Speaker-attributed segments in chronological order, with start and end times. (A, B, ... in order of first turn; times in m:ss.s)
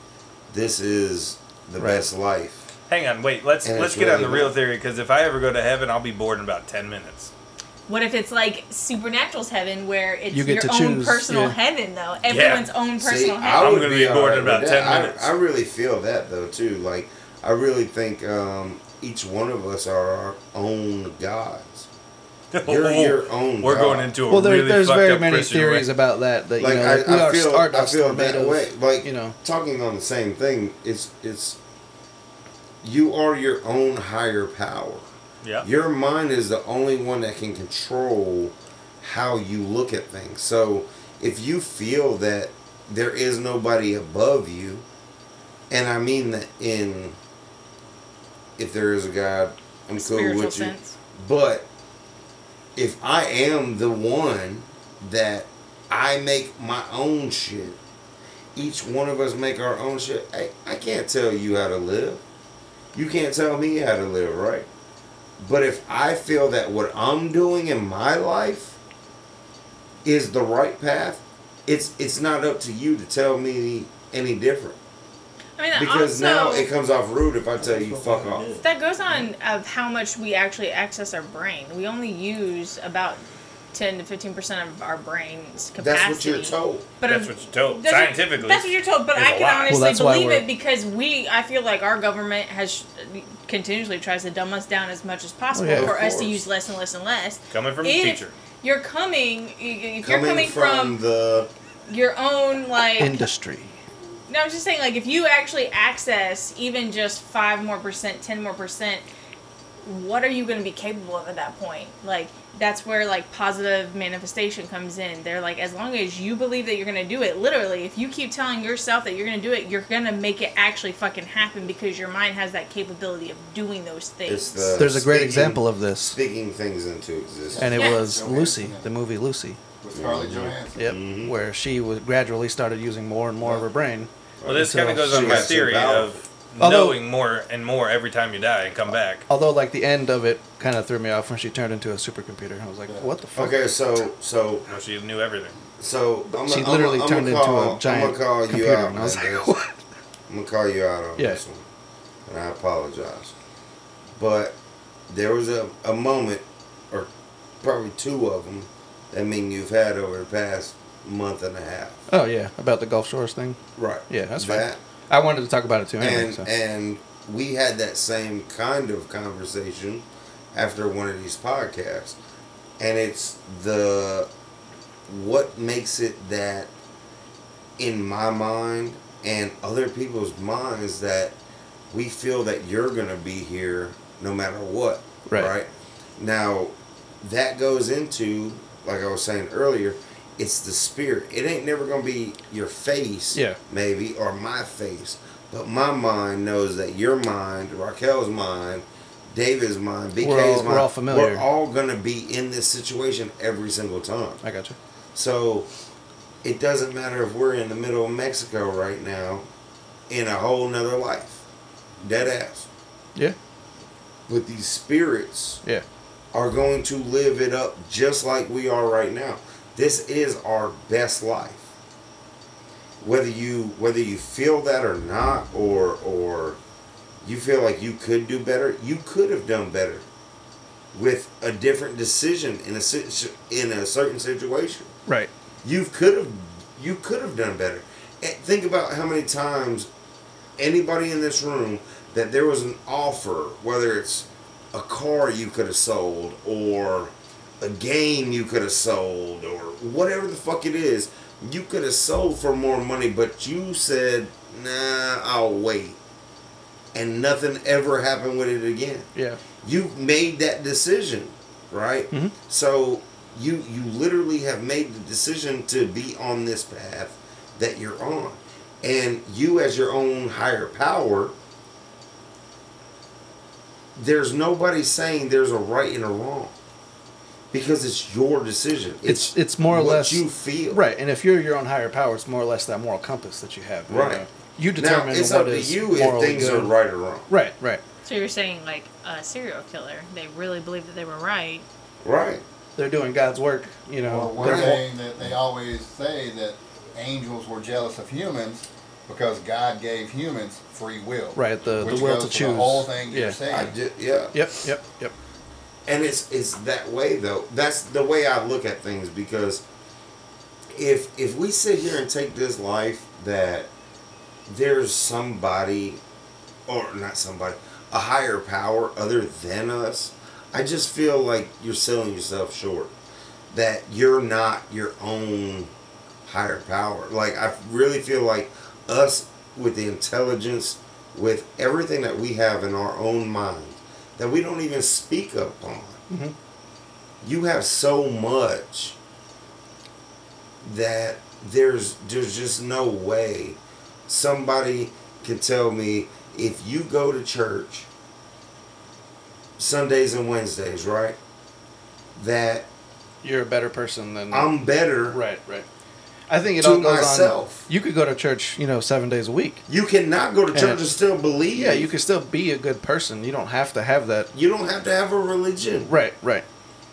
0:00.5-0:02.6 A
0:01.8-0:02.1 B
0:02.9-0:07.3 C
0:03.6-0:04.6 A
0:07.9-0:13.7 D
0:10.3-0:11.6 B
0:12.2-0:12.7 C
0:13.0-0:21.9 A
0:13.6-0:15.3 C
0:22.5-0:25.9 C
0:22.6-0:24.1 A
0:24.3-0:29.4 B
0:26.6-0:31.6 A
0:32.8-0:35.1 A
0:35.6-0:44.8 A
0:45.7-0:47.2 A
0:48.6-0:51.7 A
0:49.9-0:50.9 D
0:52.8-0:57.8 A
0:58.5-1:02.2 A
1:02.9-1:04.7 A
1:05.4-1:08.8 A
1:10.0-1:14.8 A
1:15.6-1:16.7 D
1:15.7-1:18.6 A
1:17.6-1:18.6 E
1:18.6-1:23.2 D
1:23.7-1:41.0 D
1:25.8-1:26.9 A
1:27.0-1:29.8 C
1:29.7-1:30.4 B
1:35.5-1:36.0 B
1:35.7-1:36.4 A
1:37.5-1:38.3 C
1:40.0-1:41.5 A
1:41.9-1:43.2 D
1:43.0-1:43.8 B
1:44.3-1:49.0 D
1:49.8-2:04.8 D
2:04.2-2:07.8 A
2:04.8-2:06.2 B
2:07.5-2:08.9 E
2:07.6-2:09.6 B
2:07.8-2:08.0 D
2:09.8-2:10.8 E
2:09.9-2:11.3 A
2:10.8-2:15.7 B
2:14.4-2:16.2 A
2:14.4-2:19.2 C
2:16.6-2:17.0 B
2:18.9-2:23.6 B
2:23.3-2:24.7 A
2:24.7-2:25.5 C
2:25.8-2:29.5 A
2:26.3-2:29.8 B
2:30.3-2:31.6 A
2:32.3-2:33.3 A
2:34.2-2:34.6 A
2:35.1-2:37.1 A
2:37.6-2:42.0 A
2:42.1-2:46.5 B
2:43.8-2:44.8 A
2:46.0-2:52.2 A
2:52.8-2:54.3 A
2:55.1-2:56.7 A
2:57.8-3:01.4 A
3:01.9-3:24.4 A
3:05.3-3:05.5 B
3:13.3-3:13.6 B
3:20.2-3:21.4 B
3:24.4-3:24.8 B
3:25.1-3:25.7 A
3:26.4-3:29.5 A
3:30.1-3:31.4 A
3:32.0-3:32.7 A
3:34.3-3:35.6 A
3:36.3-3:41.6 A
3:43.0-3:46.6 A
3:47.2-3:50.0 A
3:50.9-3:54.9 A
3:55.6-3:59.9 A
4:00.6-4:16.0 A
4:16.9-4:19.1 A
4:19.1-4:19.4 B
4:19.6-4:31.3 A
4:33.9-4:36.6 A
4:37.5-4:40.8 A
4:39.0-4:46.7 B
4:43.9-4:44.2 A
4:44.8-4:47.3 A
4:47.3-4:47.8 B
4:48.0-4:51.6 D
4:52.0-4:52.4 A
4:52.8-4:54.8 B
4:54.0-5:03.7 E
4:54.4-4:54.8 A
5:01.3-5:03.4 B
5:03.5-5:04.4 A
5:04.3-5:05.1 B
5:05.8-5:09.6 A
5:10.7-5:13.7 A
5:14.5-5:16.0 A
5:16.7-5:22.9 A
5:23.5-5:25.7 A
5:26.2-5:36.0 A
5:36.1-5:36.3 B
5:37.2-5:39.0 A
5:40.6-5:47.9 A
5:49.6-5:51.2 A
5:52.2-5:52.7 A
5:53.2-5:54.5 B
5:54.3-5:55.2 A
5:55.1-5:55.6 B
5:56.3-5:59.6 B
5:56.6-5:57.6 A
5:59.7-6:01.9 A
6:00.5-6:00.8 B
6:01.5-6:04.3 B
6:04.3-6:05.9 A
6:05.8-6:06.4 B